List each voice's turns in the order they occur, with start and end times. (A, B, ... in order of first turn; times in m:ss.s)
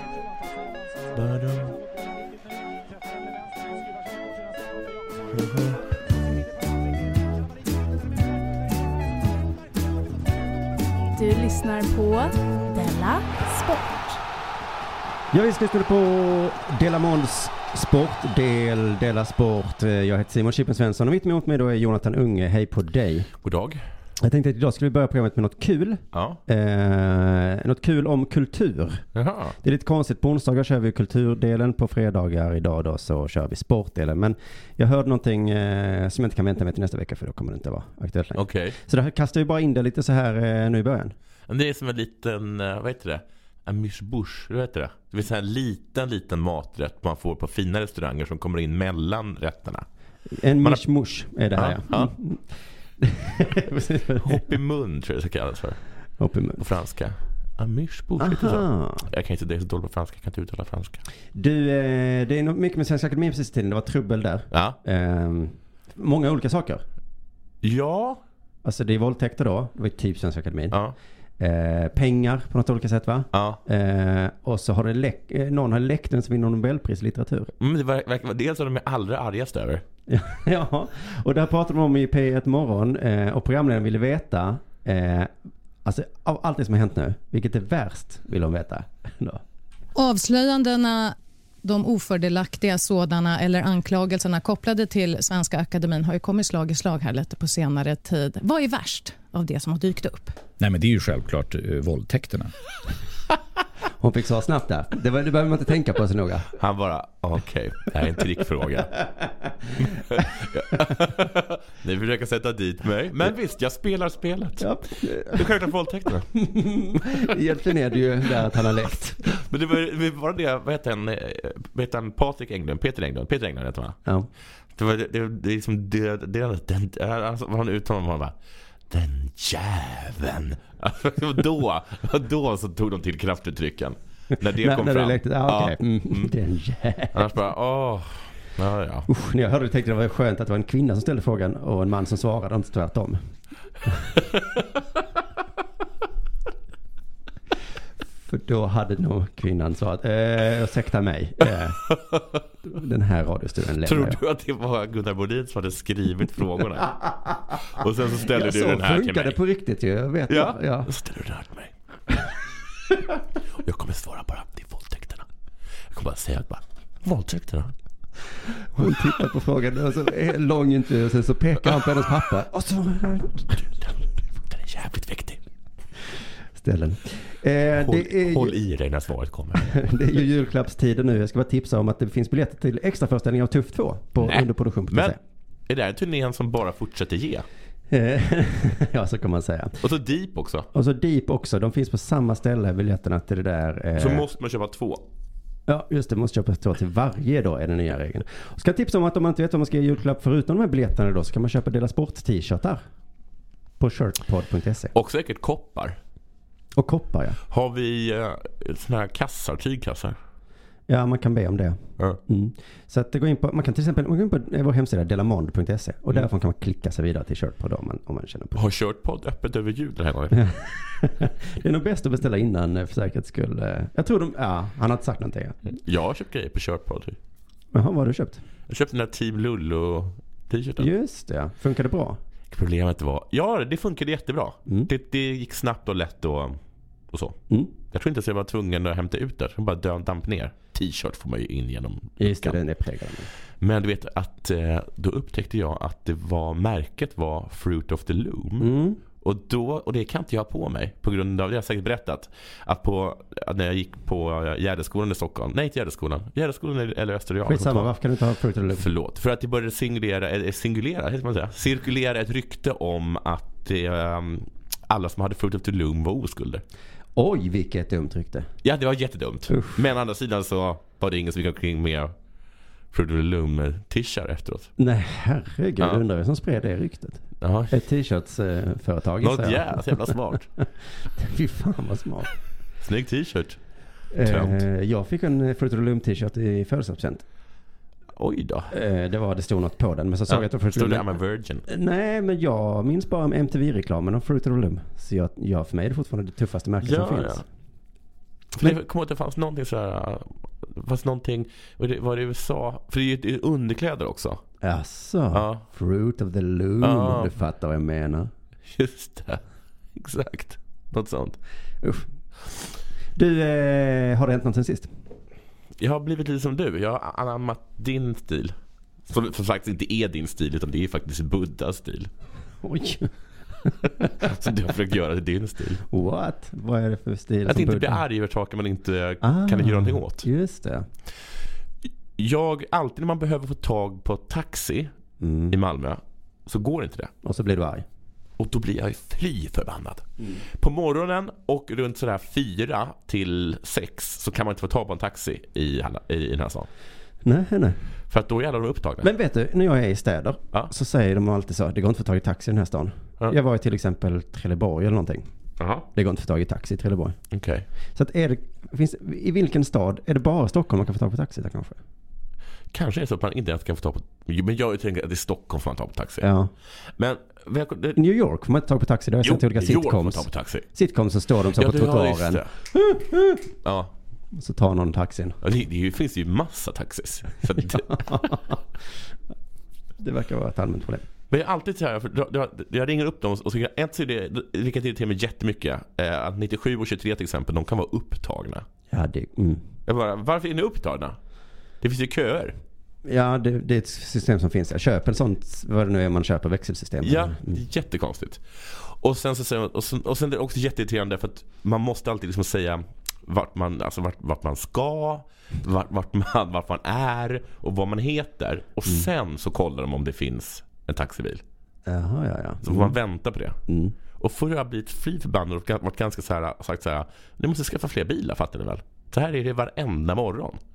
0:01.1-0:01.7 A
0:05.3-0:05.8 A
0:11.1-0:14.2 B
0:15.3-0:23.3 C
0:23.4-0:23.8 A
0:24.2-0:29.0 C
0:26.1-0:26.4 A
0:29.1-0:29.6 A
0:29.6-0:41.1 C
0:38.3-0:38.8 A
0:41.5-0:49.8 A
0:50.3-0:52.4 C
0:51.5-0:52.1 A
0:53.0-0:54.4 C
0:54.2-0:55.8 A
0:56.2-0:56.6 C
0:56.6-1:01.0 A
0:58.2-0:59.1 C
1:01.3-1:06.8 C
1:04.5-1:04.8 A
1:07.6-1:08.2 A
1:08.6-1:10.8 C
1:11.4-1:17.5 C
1:13.3-1:13.6 A
1:17.6-1:19.8 A
1:20.1-1:25.3 C
1:25.8-1:29.4 C
1:30.0-1:40.3 D
1:40.6-1:42.5 E
1:44.0-1:46.5 C
1:46.6-1:49.0 A
1:49.8-1:56.3 A
1:54.6-1:55.5 C
1:56.3-1:59.4 C
1:59.2-2:04.0 A
2:04.8-2:08.3 A
2:08.9-2:16.3 A
2:14.6-2:17.3 C
2:17.1-2:19.1 A
2:19.1-2:23.2 C
2:23.9-2:24.2 C
2:24.3-2:24.6 A
2:28.3-2:31.8 C
2:31.8-2:32.4 A
2:32.6-2:34.2 C
2:33.8-2:37.0 A
2:37.6-2:39.4 A
2:38.2-2:40.9 C
2:40.3-2:41.8 A
2:43.5-2:45.2 A
2:45.9-2:47.7 A
2:48.7-2:53.6 C
2:54.4-2:55.4 A
2:56.6-2:58.6 C
2:57.7-2:59.7 A
2:59.6-3:05.2 C
3:04.2-3:05.2 A
3:05.7-3:07.4 A
3:07.9-3:09.8 C
3:09.8-3:10.7 A
3:10.7-3:14.3 C
3:14.0-3:15.0 A
3:15.7-3:22.8 C
3:23.8-3:24.9 C
3:24.9-3:26.0 A
3:26.8-3:27.4 C
3:27.5-3:30.2 A
3:30.9-3:38.6 C
3:38.6-3:40.5 A
3:40.3-3:45.7 C
3:45.6-3:47.2 A
3:47.7-3:48.4 C
3:48.7-3:50.9 A
3:50.8-3:52.2 C
3:52.5-3:56.6 A
3:57.1-4:02.6 A
4:02.2-4:03.3 C
4:03.6-4:17.9 A
4:08.6-4:09.0 C
4:17.4-4:18.9 C
4:18.8-4:26.6 A
4:27.2-4:28.5 C
4:28.6-4:32.1 A
4:29.5-4:29.8 C
4:32.9-4:34.7 A
4:34.8-4:40.6 C
4:37.4-4:37.8 A
4:39.2-4:40.5 A
4:41.2-4:42.3 C
4:42.8-4:43.6 A
4:44.1-4:47.2 C
4:44.2-4:44.6 A
4:48.1-4:48.7 A
4:48.7-4:51.1 C
4:50.3-4:51.6 A
4:51.6-4:57.4 C
4:56.8-4:57.4 A
4:58.5-5:04.4 A
5:04.6-5:08.3 C
5:05.3-5:05.6 A
5:06.8-5:07.3 A
5:08.7-5:09.4 A
5:09.9-5:11.4 A
5:13.1-5:14.9 C
5:15.8-5:18.5 A
5:19.1-5:22.1 A
5:22.6-5:23.1 C
5:23.6-5:24.2 C
5:24.2-5:25.8 A
5:25.9-5:28.0 C
5:27.4-5:30.3 A
5:29.2-5:30.8 C
5:32.2-5:34.9 A
5:35.2-5:35.6 C
5:35.5-5:37.1 A
5:37.2-5:37.8 C
5:38.4-5:46.7 A
5:47.2-5:47.8 C
5:48.1-5:49.1 A
5:49.0-5:55.2 C
5:55.6-5:55.9 A
5:55.9-5:57.2 C
5:57.3-5:57.6 A
5:57.9-6:01.8 C
6:02.7-6:06.3 A
6:06.2-6:06.5 C
6:07.0-6:08.0 A
6:07.9-6:13.4 C
6:09.2-6:10.6 A
6:11.5-6:12.5 A
6:13.5-6:13.9 A
6:14.3-6:15.4 C
6:15.4-6:18.0 A
6:17.6-6:18.6 C
6:20.0-6:21.1 C
6:21.3-6:28.6 A
6:28.9-6:29.6 C
6:29.8-6:31.2 A
6:31.8-6:32.5 A
6:33.0-6:37.6 C
6:37.0-6:51.4 A
6:51.9-6:53.0 C
6:52.6-6:53.6 A
6:53.7-6:53.9 C
6:54.2-7:00.6 A